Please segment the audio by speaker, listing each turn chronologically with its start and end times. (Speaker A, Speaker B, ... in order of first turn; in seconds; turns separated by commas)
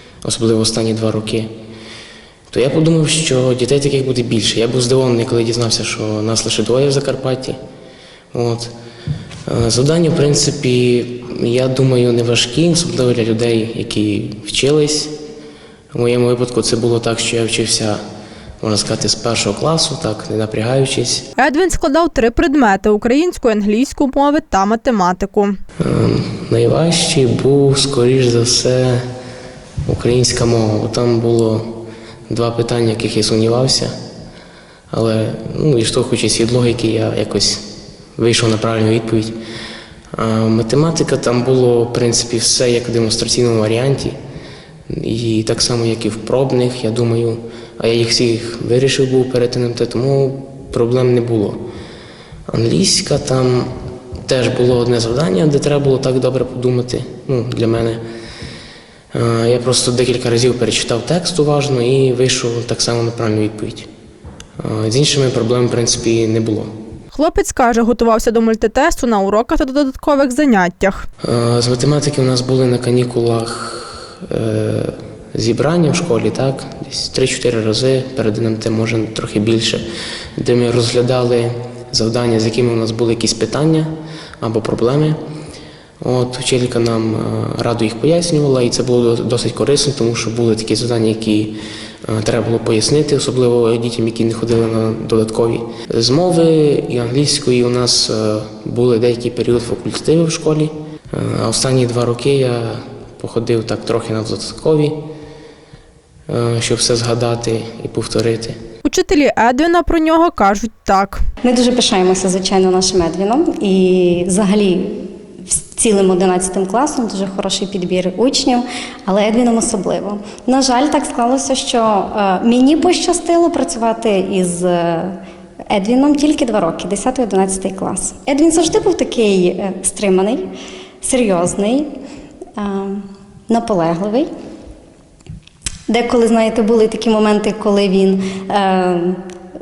Speaker A: 0.2-1.5, Speaker A: 2.5-7.6, Speaker A: 8.3-8.7, Speaker A: 9.5-15.2, Speaker A: 15.9-18.0, Speaker A: 18.6-21.3, Speaker B: 21.4-25.6, Speaker A: 25.8-29.0, Speaker A: 29.9-34.0, Speaker A: 34.9-39.4, Speaker A: 40.1-44.2, Speaker A: 44.9-51.6, Speaker A: 52.5-58.0, Speaker A: 59.1-63.9, Speaker A: 64.6-66.7, Speaker B: 67.1-71.0, Speaker A: 71.2-79.8, Speaker A: 80.4-85.2, Speaker A: 86.0-105.0, Speaker A: 106.3-108.6, Speaker B: 108.8-111.2, Speaker C: 111.4-125.2, Speaker C: 125.7-130.5, Speaker C: 131.0-131.9, Speaker C: 132.6-134.3, Speaker C: 135.9-139.2